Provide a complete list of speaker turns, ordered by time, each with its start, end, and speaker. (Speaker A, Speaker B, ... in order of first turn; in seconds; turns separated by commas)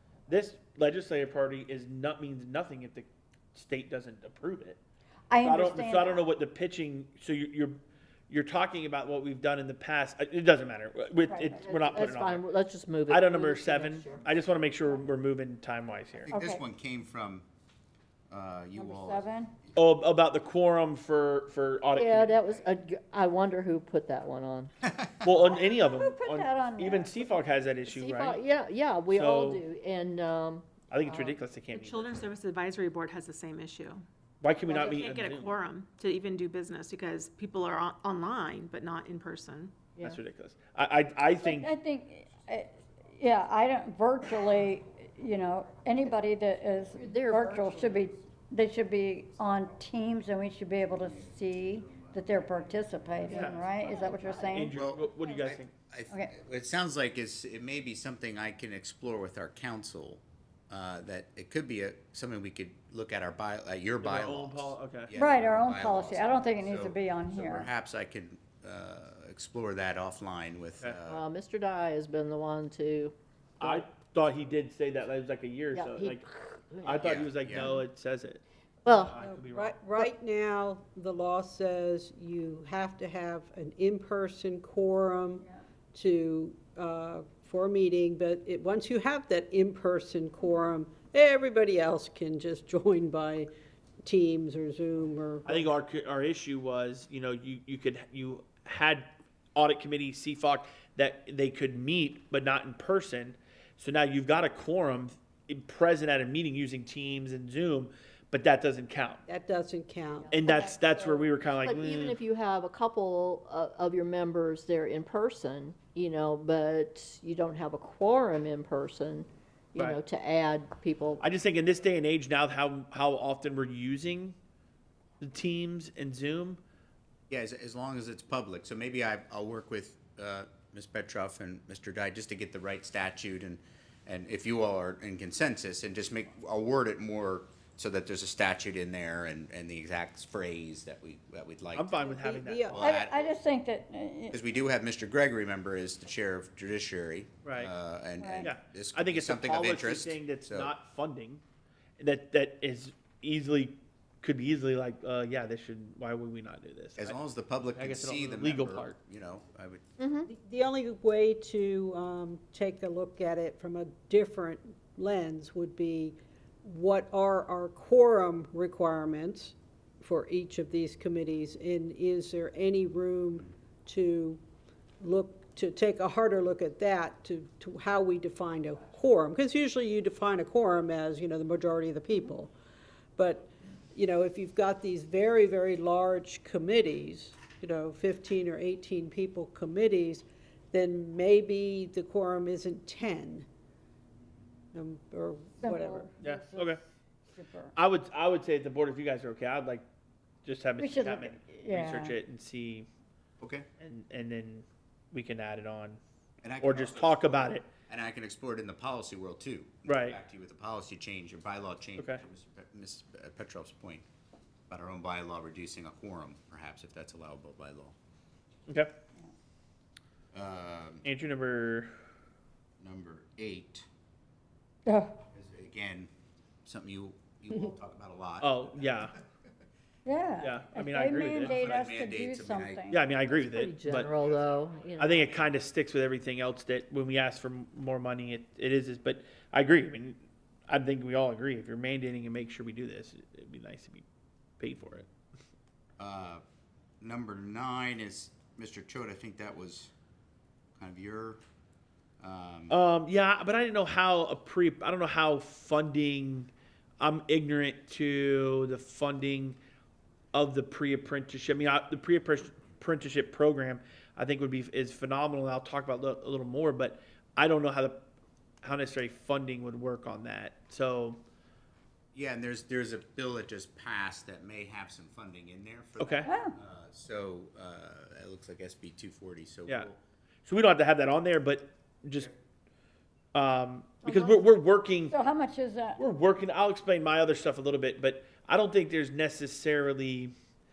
Speaker A: 0.3-4.8, Speaker B: 5.3-6.3, Speaker A: 5.4-12.4, Speaker B: 11.3-11.7, Speaker C: 11.6-14.3, Speaker A: 13.1-16.3, Speaker B: 16.3-16.6, Speaker D: 16.3-17.5, Speaker D: 18.3-19.3, Speaker B: 18.8-19.5, Speaker A: 19.8-22.4, Speaker C: 22.0-24.7, Speaker A: 25.2-28.4, Speaker B: 25.5-27.4, Speaker C: 27.9-31.4, Speaker A: 29.1-29.6, Speaker A: 30.9-32.2, Speaker E: 31.7-34.0, Speaker A: 34.4-35.6, Speaker E: 34.7-39.9, Speaker A: 40.0-41.7, Speaker B: 41.4-54.8, Speaker C: 47.0-48.0, Speaker A: 53.3-53.6, Speaker A: 54.5-55.7, Speaker D: 54.7-71.2, Speaker A: 64.0-65.1, Speaker B: 65.1-67.7, Speaker C: 71.1-73.7, Speaker A: 73.6-76.2, Speaker C: 75.7-77.8, Speaker A: 76.8-80.1, Speaker D: 77.0-77.7, Speaker C: 78.8-79.2, Speaker F: 79.2-93.5, Speaker F: 94.0-95.7, Speaker A: 95.5-109.2, Speaker F: 109.3-110.3, Speaker A: 110.3-112.2, Speaker B: 110.4-111.3, Speaker C: 111.6-121.2, Speaker A: 121.2-124.4, Speaker A: 125.2-126.6, Speaker D: 127.3-141.9, Speaker A: 141.7-142.8, Speaker F: 142.0-142.9, Speaker D: 142.7-143.3, Speaker B: 142.8-144.4, Speaker D: 144.3-150.7, Speaker A: 147.4-147.7, Speaker B: 148.2-148.5, Speaker A: 148.4-151.4, Speaker A: 152.0-159.0, Speaker D: 157.0-159.8, Speaker C: 160.0-160.3, Speaker F: 160.3-174.4, Speaker F: 175.0-182.5, Speaker F: 183.2-193.5, Speaker F: 194.7-196.1, Speaker B: 195.6-196.8, Speaker A: 196.2-196.8, Speaker B: 197.3-197.8, Speaker A: 197.8-199.8, Speaker A: 200.4-202.9, Speaker B: 200.8-202.2, Speaker D: 203.4-203.7, Speaker A: 203.8-206.0, Speaker D: 206.4-214.1, Speaker A: 206.6-207.7, Speaker A: 209.8-210.2, Speaker D: 214.7-217.9, Speaker A: 218.7-218.9, Speaker D: 220.3-221.0, Speaker A: 221.0-221.9, Speaker D: 222.8-223.8, Speaker B: 224.9-225.2, Speaker D: 225.3-226.1, Speaker D: 226.7-229.1, Speaker A: 228.4-229.1, Speaker B: 230.1-233.0, Speaker A: 230.4-231.8, Speaker D: 231.4-232.9, Speaker A: 232.9-234.1, Speaker C: 233.4-235.3, Speaker A: 235.0-244.1, Speaker A: 244.6-245.1, Speaker D: 246.0-246.4, Speaker D: 247.0-249.9, Speaker D: 250.8-251.4, Speaker D: 252.2-252.8, Speaker A: 252.7-259.6, Speaker A: 260.3-268.0, Speaker A: 268.6-271.2, Speaker D: 272.1-280.0, Speaker A: 276.0-276.3, Speaker B: 276.2-276.6, Speaker A: 280.5-282.3, Speaker A: 283.4-285.1, Speaker B: 284.1-284.4, Speaker B: 285.1-286.0, Speaker A: 286.0-290.3